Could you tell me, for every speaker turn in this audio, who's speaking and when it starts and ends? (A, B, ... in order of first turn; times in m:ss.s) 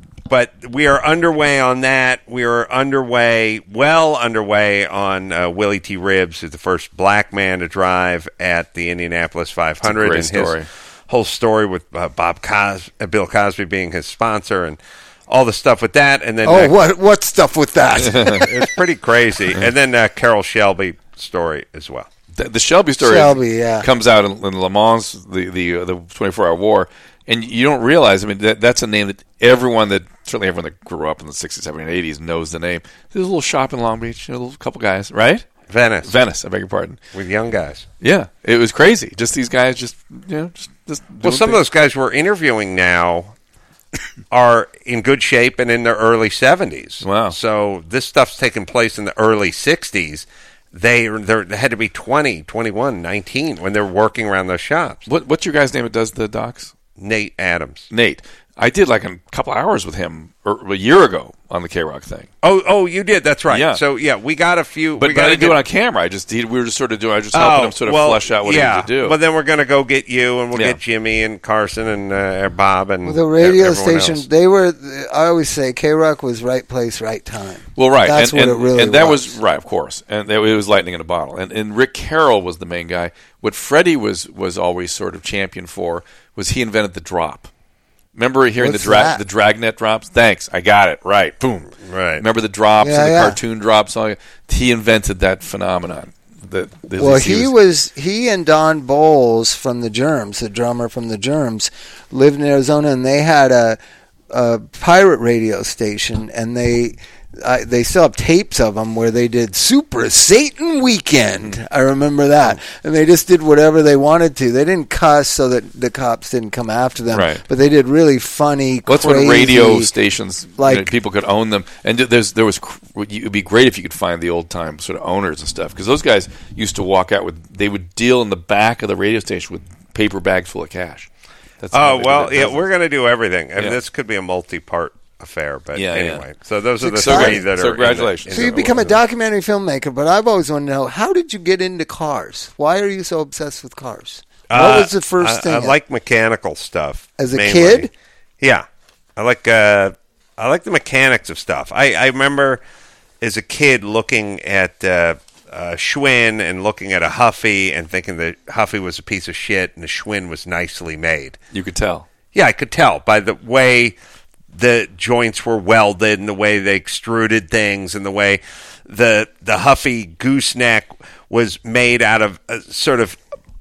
0:00.3-0:16.8 A
0:09.8-0:10.7 B
0:16.4-0:18.7 C
0:18.0-0:18.4 B
0:18.2-0:22.1 A
0:22.3-0:35.5 B
0:23.0-0:23.9 C
0:35.7-0:36.2 A
0:36.0-0:37.0 B
0:37.1-0:37.9 A
0:38.0-0:41.6 B
0:41.2-0:43.3 A
0:44.3-0:55.0 A
0:47.0-0:47.4 B
0:55.1-0:56.7 B
0:57.0-0:57.9 A
0:57.9-1:02.3 B
1:02.4-1:05.6 A
1:03.5-1:03.8 B
1:05.0-1:09.2 B
1:07.3-1:14.3 A
1:10.5-1:10.8 B
1:13.1-1:19.4 C
1:17.8-1:27.5 B
1:28.2-1:37.5 B
1:28.6-1:29.2 C
1:31.9-1:32.2 A
1:32.8-1:33.4 C
1:37.0-1:43.8 C
1:44.3-1:59.9 C
1:57.1-1:57.4 B
1:58.9-2:11.1 B
2:00.6-2:00.9 C
2:11.6-2:12.7 B
2:11.7-2:19.0 A
2:15.8-2:16.2 B
2:16.8-2:17.4 C
2:16.8-2:18.9 B
2:18.3-2:25.8 C
2:24.5-2:27.9 A
2:27.2-2:27.9 C
2:29.2-2:32.6 A
2:33.2-2:41.4 A
2:41.5-2:42.1 B
2:42.3-2:44.0 A
2:44.5-2:53.2 A